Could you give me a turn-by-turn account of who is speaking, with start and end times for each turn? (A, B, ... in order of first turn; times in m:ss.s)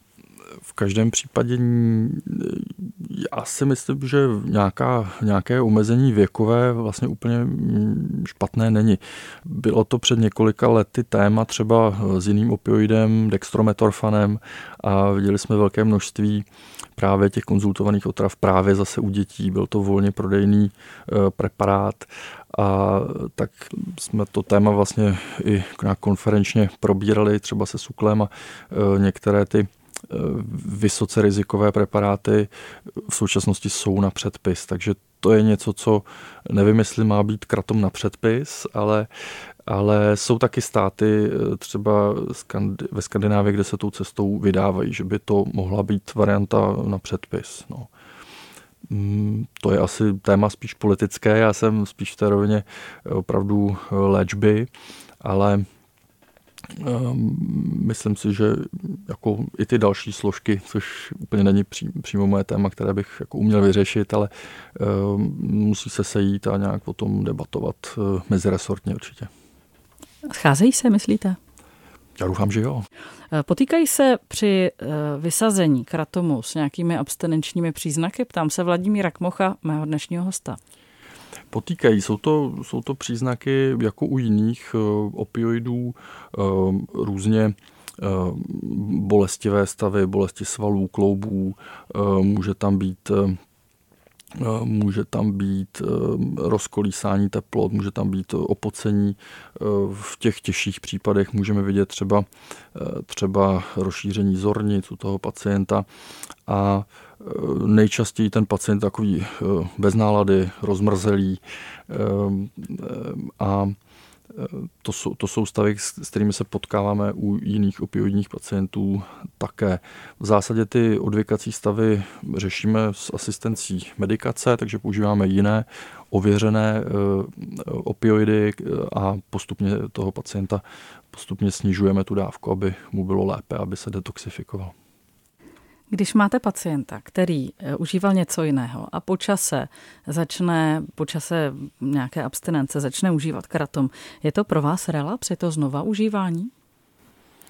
0:00.7-0:39.1 A
0:39.7-0:47.9 A
0:48.9-0:54.7 A
0:55.2-0:55.7 A
0:56.7-1:09.3 A
1:10.3-1:11.4 B
1:12.2-1:12.9 A
1:13.3-1:20.6 B
1:21.5-1:33.4 A
1:34.3-1:45.9 A
1:46.5-1:53.8 A
1:54.3-2:14.7 A
2:15.9-2:26.5 B